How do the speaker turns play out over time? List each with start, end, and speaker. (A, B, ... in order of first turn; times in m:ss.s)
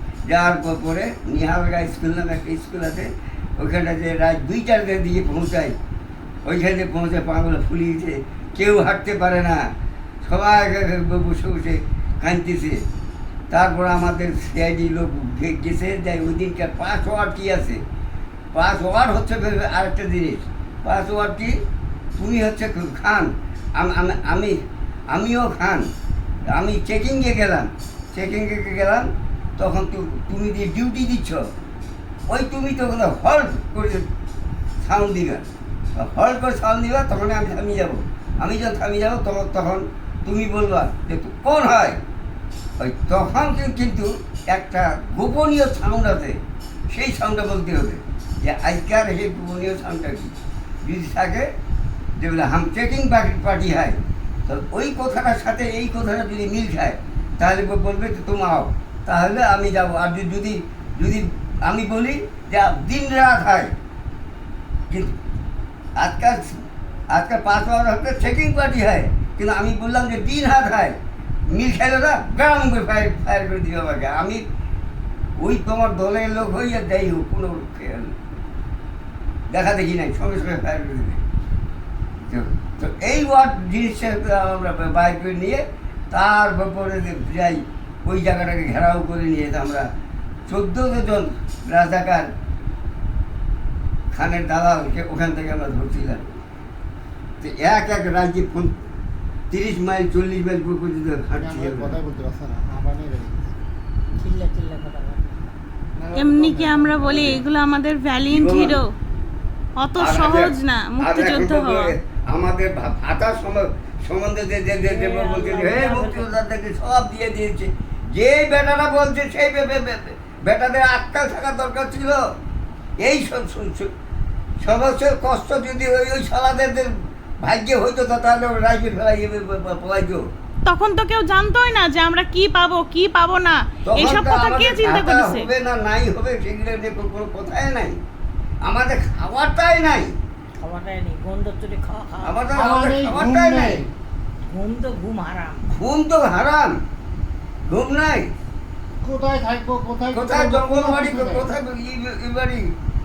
0:00.3-0:05.7 A
0:06.4-0:09.6 A
0:10.2-0:12.8 A
0:13.5-0:17.8 A
0:18.5-0:21.5 A
0:22.2-0:24.5 A
0:25.1-0:25.9 A
0:26.5-0:31.4 A
0:32.3-0:34.0 A
0:34.8-0:35.4 A
0:36.0-0:42.0 A
0:42.8-0:46.4 A
0:46.9-0:50.3 A
0:50.8-0:51.5 A
0:52.2-1:03.7 A
1:06.0-1:06.6 A
1:07.1-1:10.9 A
1:11.5-1:14.4 A
1:15.4-1:18.1 A
1:19.5-1:21.2 A
1:22.3-1:29.8 A
1:30.5-1:32.3 A
1:34.1-1:36.2 A
1:37.4-1:38.7 A
1:39.5-1:42.0 A
1:41.4-1:43.5 B
1:44.2-1:45.5 C
1:46.0-1:47.4 B
1:46.1-1:48.9 D
1:48.2-1:48.8 A
1:49.8-1:51.9 D
1:50.0-2:02.2 A
1:54.8-1:56.3 C
2:03.0-2:03.9 A
2:04.6-2:06.9 A
2:07.4-2:10.2 A
2:10.6-2:15.5 D
2:13.8-2:18.0 A
2:18.6-2:20.1 A
2:20.5-2:22.7 C
2:22.2-2:23.8 A
2:22.6-2:23.9 B
2:24.4-2:25.6 C
2:25.7-2:26.8 A
2:27.7-2:28.3 A
2:29.0-2:31.4 B
2:30.1-2:32.6 A